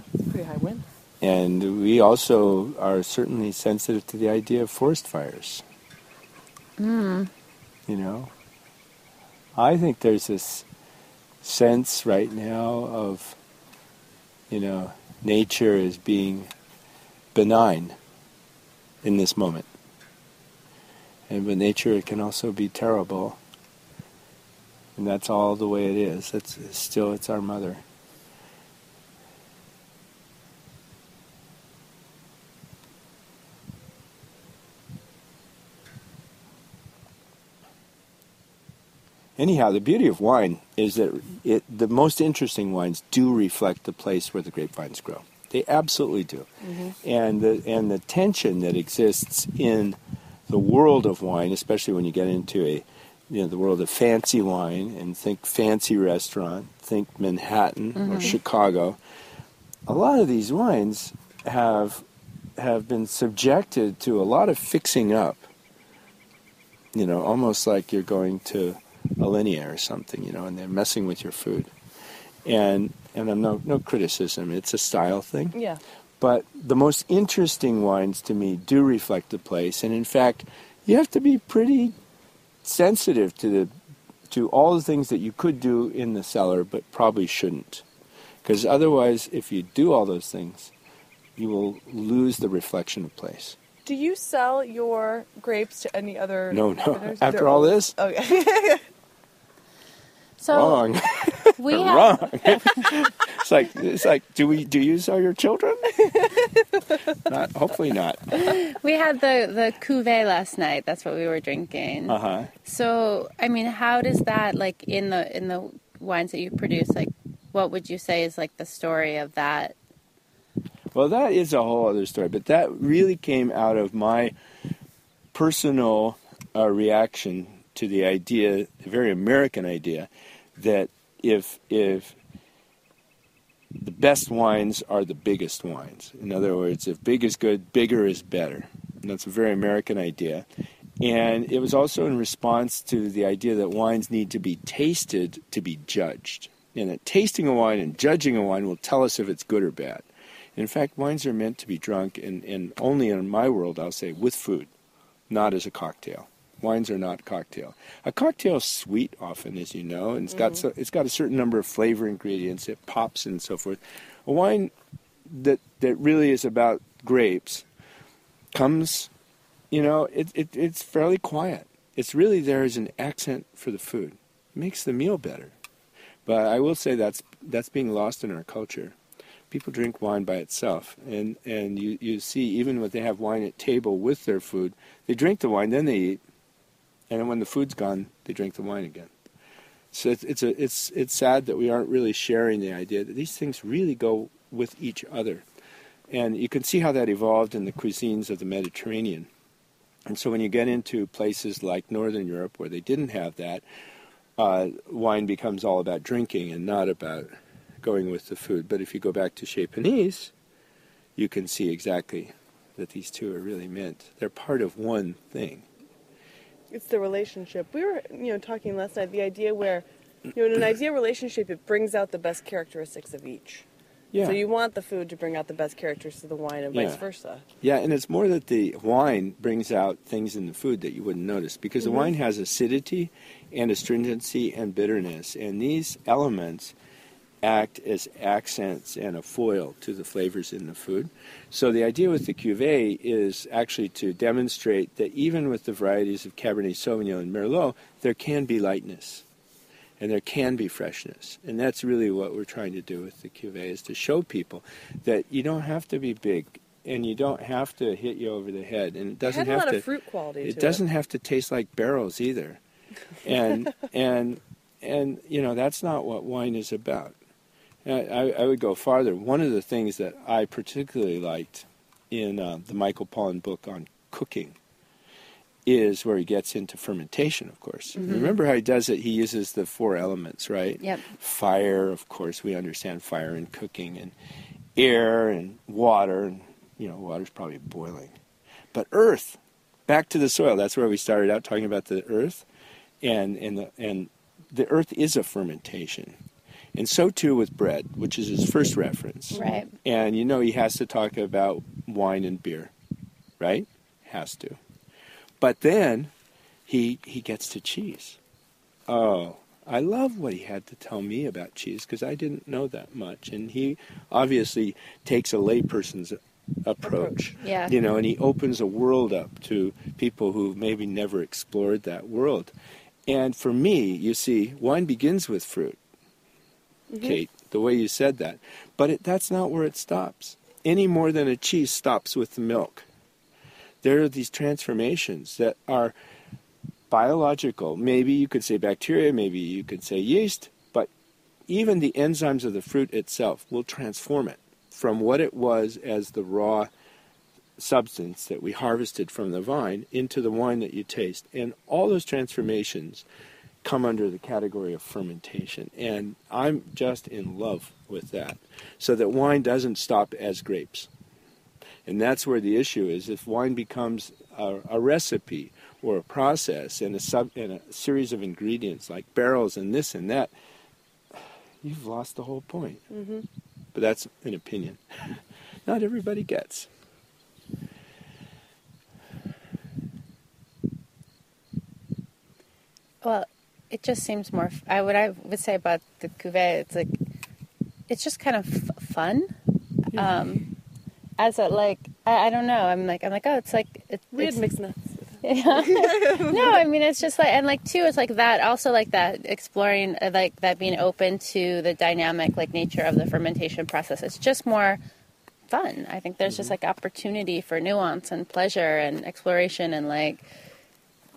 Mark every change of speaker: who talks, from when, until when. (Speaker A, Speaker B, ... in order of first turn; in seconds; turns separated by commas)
Speaker A: 0.2-0.8, Speaker B: 1.2-5.6, Speaker C: 6.8-7.3, Speaker B: 7.9-8.3, Speaker B: 9.6-10.7, Speaker B: 11.4-13.4, Speaker B: 14.5-16.5, Speaker B: 17.3-18.0, Speaker B: 19.0-19.7, Speaker B: 21.3-23.4, Speaker B: 24.9-27.8, Speaker B: 39.4-46.5, Speaker A: 46.6-46.9, Speaker B: 47.0-59.0, Speaker C: 58.0-58.4, Speaker B: 59.9-62.0, Speaker B: 62.6-65.5, Speaker B: 66.9-71.7, Speaker B: 72.4-75.6, Speaker A: 75.5-75.8, Speaker B: 76.2-81.9, Speaker B: 82.6-83.7, Speaker B: 84.3-87.8, Speaker B: 88.4-90.7, Speaker B: 91.4-93.6, Speaker A: 93.8-98.8, Speaker B: 96.5-97.9, Speaker C: 100.4-100.8, Speaker B: 100.5-106.1, Speaker C: 101.6-102.8, Speaker B: 107.2-108.3, Speaker C: 108.4-119.8, Speaker B: 112.1-112.5, Speaker B: 120.9-124.3, Speaker B: 125.3-132.2, Speaker B: 133.8-140.5, Speaker B: 141.0-154.7, Speaker B: 155.3-164.7, Speaker A: 160.3-160.6, Speaker B: 165.2-167.7, Speaker B: 168.5-169.1, Speaker B: 169.7-175.5, Speaker B: 176.2-179.0, Speaker B: 179.5-186.2, Speaker B: 187.1-189.1, Speaker B: 189.9-195.4, Speaker B: 196.1-199.3, Speaker B: 200.1-203.6, Speaker B: 204.4-207.3, Speaker B: 207.8-210.3, Speaker B: 211.2-215.7, Speaker A: 216.7-223.6, Speaker B: 224.1-224.4, Speaker A: 224.2-227.4, Speaker B: 226.7-227.0, Speaker B: 227.6-236.7, Speaker A: 231.8-232.1, Speaker B: 237.4-249.2, Speaker B: 250.0-259.9, Speaker A: 259.2-260.8, Speaker B: 260.4-262.6, Speaker B: 263.2-267.1, Speaker B: 267.8-274.6, Speaker B: 275.6-284.1, Speaker C: 278.0-278.3, Speaker C: 280.8-281.1, Speaker B: 284.8-288.1, Speaker B: 288.7-292.4, Speaker B: 293.0-296.2, Speaker B: 296.7-302.7, Speaker A: 299.3-299.6, Speaker C: 299.4-299.7, Speaker B: 303.4-304.6, Speaker B: 305.4-306.1, Speaker B: 306.7-308.2, Speaker B: 308.9-322.5, Speaker C: 317.4-317.7, Speaker B: 323.1-325.8, Speaker A: 326.9-327.2, Speaker B: 327.0-332.9, Speaker B: 333.8-335.9, Speaker B: 336.9-340.9, Speaker B: 341.5-346.7, Speaker B: 347.6-353.1, Speaker B: 353.6-360.9, Speaker B: 361.9-370.3, Speaker B: 371.6-372.8, Speaker A: 372.9-373.2, Speaker B: 373.7-376.7, Speaker C: 383.0-386.9, Speaker C: 387.9-389.3, Speaker C: 389.9-390.4, Speaker C: 391.2-394.4, Speaker A: 394.1-396.6, Speaker C: 395.2-404.8, Speaker C: 405.5-410.2, Speaker B: 406.2-406.5